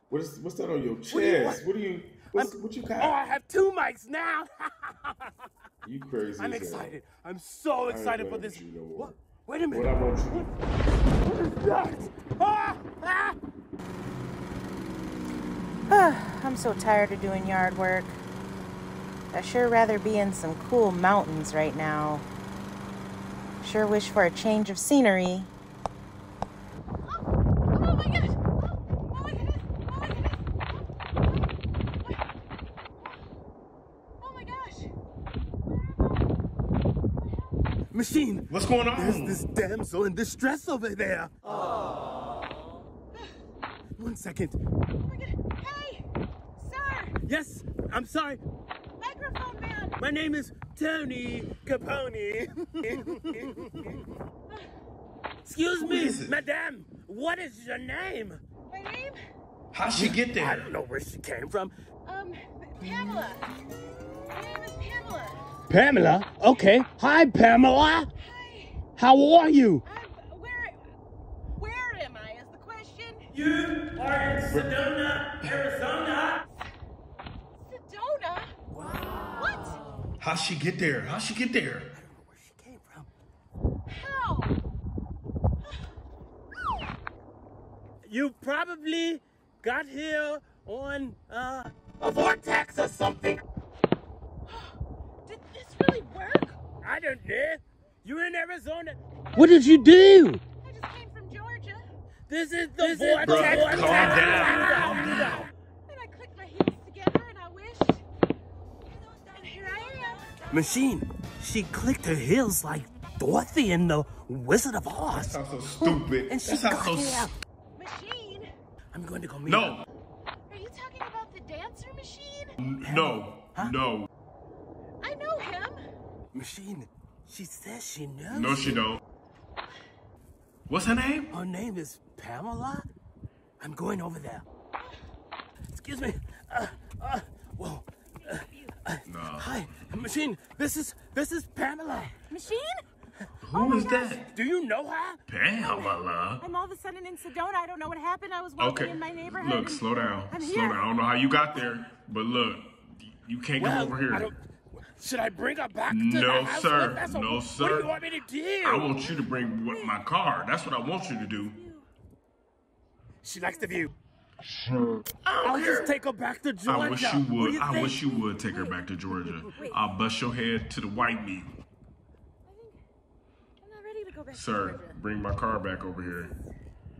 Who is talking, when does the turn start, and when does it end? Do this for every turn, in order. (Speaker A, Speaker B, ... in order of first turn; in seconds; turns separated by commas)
Speaker A: 0.1-3.3, Speaker B: 1.1-1.6, Speaker B: 2.3-5.3, Speaker A: 5.8-7.0, Speaker B: 6.4-10.5, Speaker A: 7.8-9.2, Speaker A: 9.7-10.5, Speaker B: 11.2-13.4, Speaker C: 15.9-18.2, Speaker C: 19.3-22.2, Speaker C: 23.6-25.5, Speaker D: 27.7-30.6, Speaker D: 31.2-32.2, Speaker D: 33.0-33.3, Speaker D: 34.2-34.9, Speaker D: 35.7-36.3, Speaker B: 37.9-41.4, Speaker A: 38.5-39.4, Speaker B: 44.0-44.6, Speaker D: 45.0-46.0, Speaker D: 46.6-47.2, Speaker B: 47.2-48.4, Speaker D: 49.0-50.0, Speaker B: 50.0-54.0, Speaker B: 55.4-58.4, Speaker A: 55.8-56.4, Speaker D: 58.7-59.2, Speaker A: 59.7-60.7, Speaker B: 60.0-61.7, Speaker D: 62.1-63.5, Speaker D: 64.3-65.5, Speaker B: 65.7-68.1, Speaker D: 68.2-68.8, Speaker B: 69.0-69.8, Speaker D: 69.9-70.8, Speaker D: 71.6-73.3, Speaker B: 73.3-76.4, Speaker D: 77.6-78.5, Speaker B: 78.8-79.3, Speaker D: 79.3-79.8, Speaker A: 80.2-81.9, Speaker B: 81.9-83.1, Speaker D: 83.9-84.6, Speaker D: 85.6-85.9, Speaker B: 88.0-93.4, Speaker D: 94.5-94.7, Speaker D: 95.2-96.6, Speaker B: 96.8-100.4, Speaker D: 99.3-100.1, Speaker D: 100.6-101.8, Speaker B: 102.3-105.5, Speaker D: 102.8-108.0, Speaker A: 103.2-105.5, Speaker D: 109.3-110.5, Speaker B: 110.5-117.3, Speaker A: 115.1-117.3, Speaker D: 117.8-118.5, Speaker B: 118.9-119.8, Speaker A: 119.5-119.8, Speaker D: 120.5-122.6, Speaker A: 122.6-124.1, Speaker B: 122.8-123.8, Speaker D: 125.0-125.8, Speaker B: 126.3-128.8, Speaker A: 128.3-129.0, Speaker A: 130.7-131.3, Speaker B: 131.3-132.9, Speaker B: 133.6-134.4, Speaker B: 135.7-142.2, Speaker A: 139.1-139.7, Speaker D: 142.3-142.8, Speaker A: 143.4-144.2, Speaker D: 143.5-144.2, Speaker B: 144.2-145.2, Speaker A: 145.3-146.4, Speaker D: 145.6-150.9, Speaker A: 148.6-154.3, Speaker B: 153.6-159.1, Speaker A: 155.9-157.9, Speaker A: 158.6-161.6, Speaker D: 159.7-160.1, Speaker D: 161.3-161.8, Speaker B: 163.2-163.9, Speaker D: 165.3-165.9, Speaker B: 165.4-168.2, Speaker A: 166.7-171.6, Speaker D: 168.1-169.0, Speaker D: 169.5-169.9, Speaker D: 172.5-172.8, Speaker D: 173.6-175.0, Speaker A: 174.3-176.3